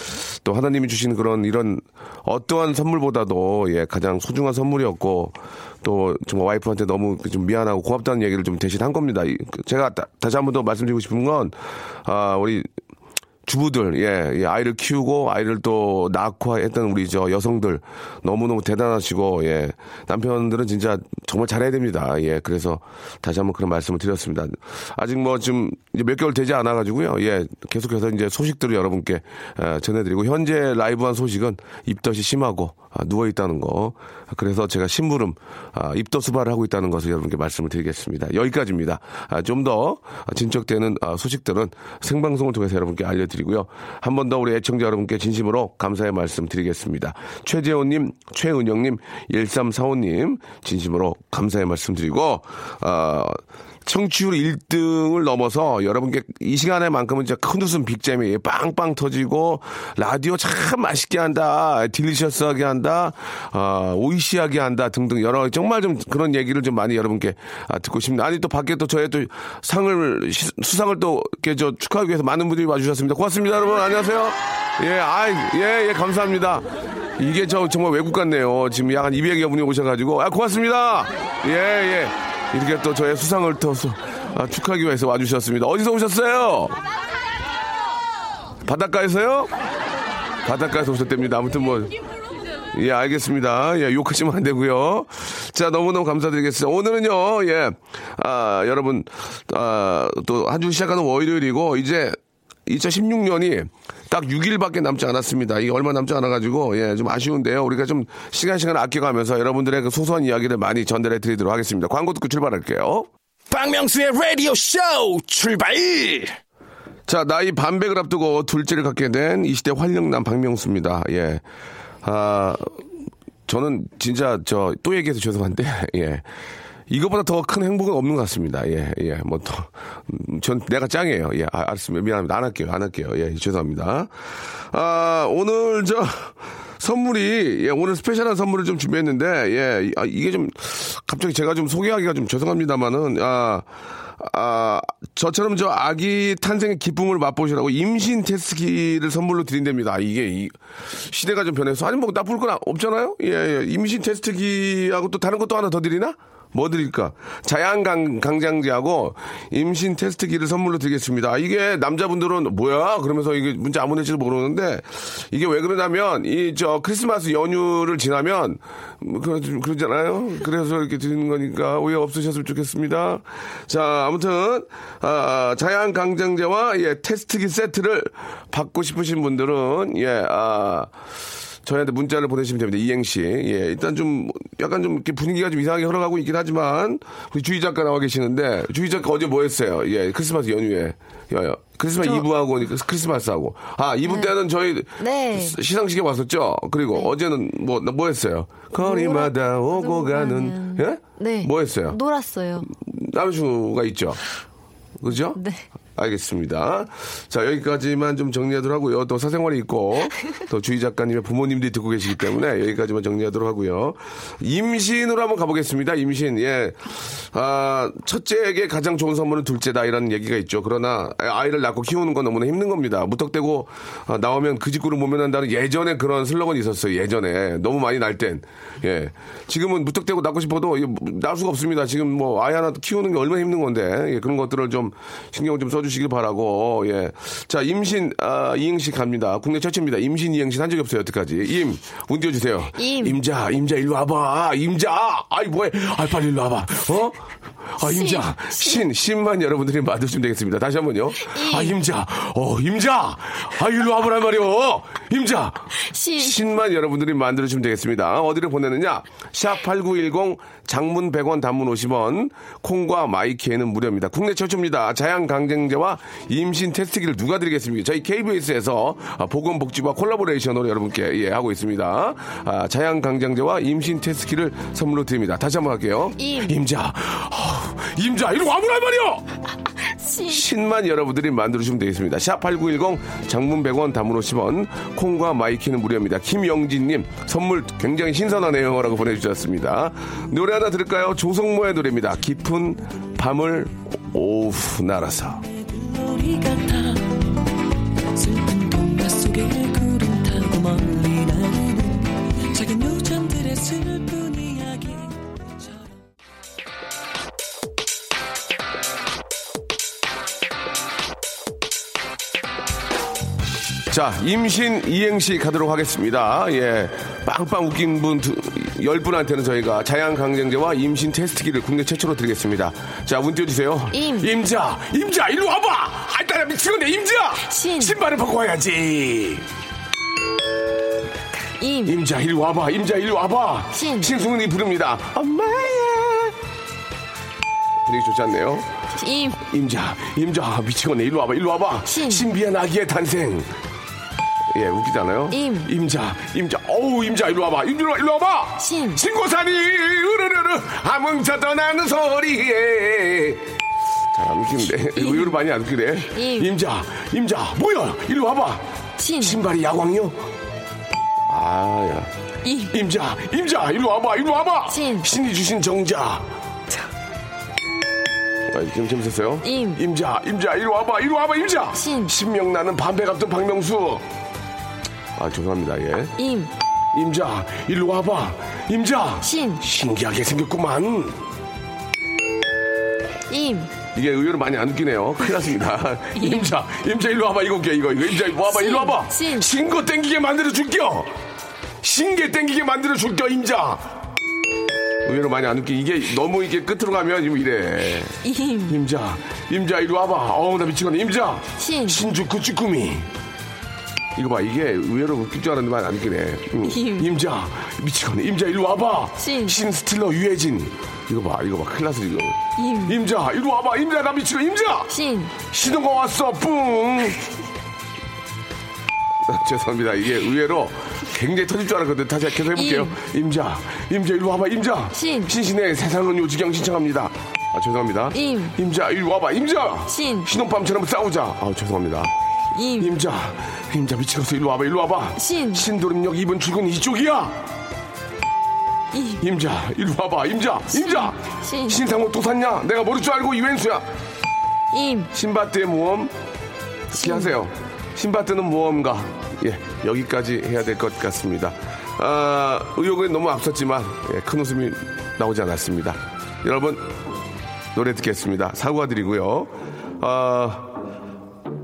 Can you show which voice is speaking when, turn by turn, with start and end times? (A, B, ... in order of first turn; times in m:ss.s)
0:00.4-0:12.7 A
0:13.5-1:26.8 A
1:28.6-1:29.5 A
1:30.4-1:31.9 A
1:32.7-1:53.1 A
1:53.5-1:56.3 B
1:57.1-2:01.4 A
2:02.0-2:02.8 A
2:03.5-2:06.2 A
2:06.9-2:14.1 A
2:14.7-2:23.7 A
2:24.2-3:00.9 A
3:01.6-3:22.0 A
3:14.0-3:14.4 C
3:15.0-3:15.6 C
3:18.8-3:22.7 C
3:22.7-3:24.2 A
3:25.0-3:25.4 A
3:25.4-3:25.6 C
3:26.0-4:07.2 A
4:02.8-4:03.2 C
4:07.8-4:39.2 A
4:07.8-4:08.8 C
4:11.2-4:11.8 C
4:15.8-4:16.4 C
4:36.2-4:36.6 C
4:40.0-4:40.5 C
4:40.3-4:55.4 A
4:55.4-4:57.5 D
4:58.1-5:06.0 D
5:13.9-5:29.5 A
5:23.9-5:24.3 C
5:27.5-5:28.0 C
5:31.6-5:32.0 C
5:31.9-5:36.4 A
5:33.7-5:34.1 C
5:37.8-5:38.7 A
5:39.0-5:39.4 C
5:39.4-5:43.5 A
5:41.9-5:42.3 C
5:44.5-5:53.6 A
5:45.3-5:45.7 C
5:48.6-5:49.0 C
5:54.1-5:58.6 A
5:55.0-5:55.4 C
5:56.1-5:56.5 C
5:59.0-5:59.4 C
5:59.2-6:00.2 A
6:01.3-6:02.1 A
6:02.4-6:02.8 C
6:02.7-6:06.3 A
6:04.7-6:05.1 C
6:08.5-6:14.1 A
6:09.4-6:09.8 C
6:11.8-6:12.1 C
6:15.2-6:16.2 A
6:16.2-6:16.5 C
6:16.9-6:21.2 A
6:19.2-6:19.6 C
6:23.3-6:23.7 C
6:23.9-6:31.1 A
6:26.2-6:26.5 C
6:28.5-6:29.5 C
6:31.8-6:33.9 A
6:35.0-6:43.1 A
6:38.2-6:38.8 C
6:41.6-6:42.0 C
6:44.2-6:57.2 A
6:46.6-6:47.1 C
6:49.2-6:49.6 C
6:52.6-6:53.0 C
6:54.9-6:55.4 C
6:59.2-7:12.1 A
7:02.5-7:03.0 C
7:04.9-7:05.3 C
7:08.1-7:08.6 C
7:09.9-7:10.3 C
7:12.5-7:13.0 C
7:12.8-7:17.4 A
7:15.2-7:15.7 C
7:18.9-7:19.2 C
7:19.2-7:23.9 A
7:20.7-7:21.8 C
7:24.7-7:25.1 C
7:25.1-7:26.1 A
7:26.9-7:37.0 A
7:26.9-7:27.3 C
7:37.7-7:40.8 A